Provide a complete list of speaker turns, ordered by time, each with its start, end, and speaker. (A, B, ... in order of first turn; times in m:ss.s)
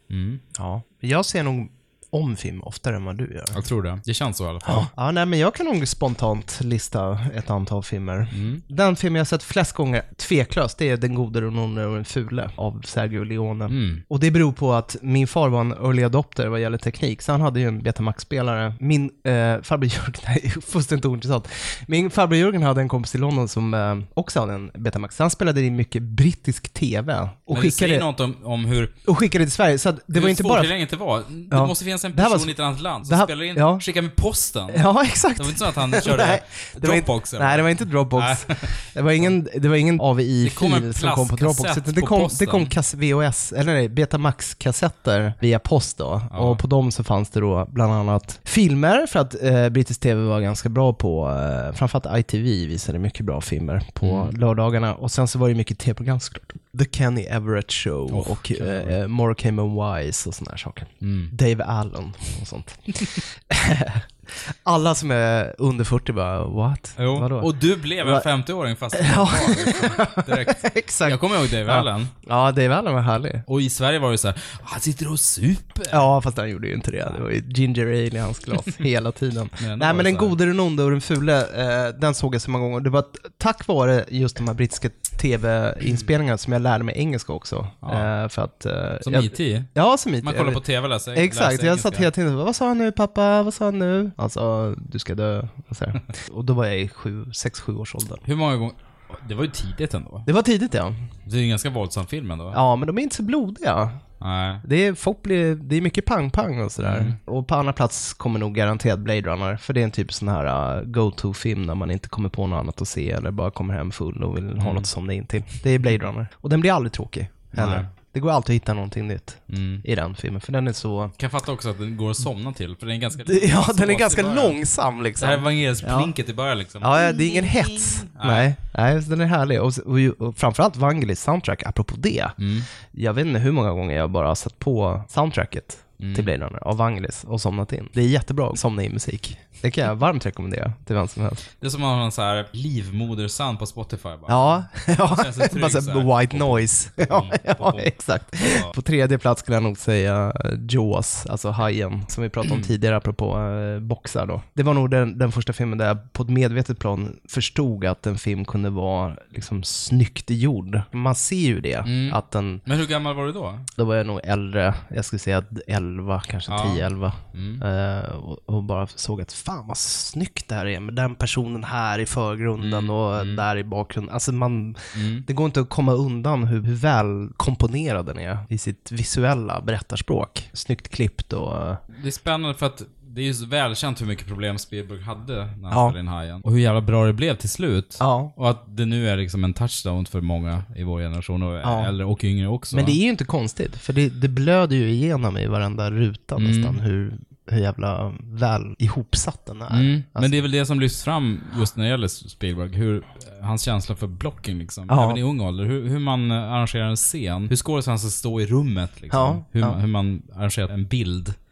0:00.1-0:00.4 A
0:00.5-0:03.6 B
0:03.5-0:04.9 A
0:04.6-0:28.1 B
0:08.3-0:08.6 A
0:13.7-0:14.0 A
0:27.5-0:29.0 A
0:29.0-0:30.7 B
0:30.1-0:39.3 A
0:31.5-0:33.8 B
0:34.7-1:08.3 B
0:40.4-0:42.7 A
0:46.3-0:46.6 A
0:54.0-0:54.3 A
0:58.1-0:59.0 A
1:01.0-1:01.3 A
1:07.0-1:12.1 A
1:08.9-1:13.4 B
1:13.5-1:16.1 A
1:15.9-1:38.2 B
1:19.6-1:20.4 A
1:27.8-1:28.1 A
1:29.0-1:29.7 A
1:30.2-1:32.1 A
1:38.2-1:40.3 A
1:40.3-1:41.0 B
1:41.3-1:42.6 A
1:42.5-1:44.0 B
1:44.2-1:44.6 A
1:44.6-2:01.1 B
1:46.8-1:47.2 A
1:54.6-1:54.9 A
1:57.5-1:57.9 A
1:59.5-1:59.8 A
2:01.2-2:04.6 A
2:03.2-2:06.1 B
2:05.2-2:08.5 A
2:06.8-2:12.4 B
2:12.4-2:12.7 A
2:12.9-2:21.4 B
2:16.0-2:16.3 A
2:21.6-2:28.7 A
2:24.3-2:42.6 B
2:32.4-2:32.7 A
2:41.8-2:43.7 A
2:43.8-3:01.8 B
2:46.5-2:47.6 A
2:52.6-2:53.4 A
2:54.9-2:55.3 A
3:01.9-3:13.0 A
3:05.7-3:06.0 B
3:08.0-3:08.3 B
3:11.6-3:11.9 B
3:12.7-3:20.3 B
3:16.4-3:16.8 A
3:19.7-3:31.4 A
3:24.9-3:25.2 B
3:29.1-3:29.8 B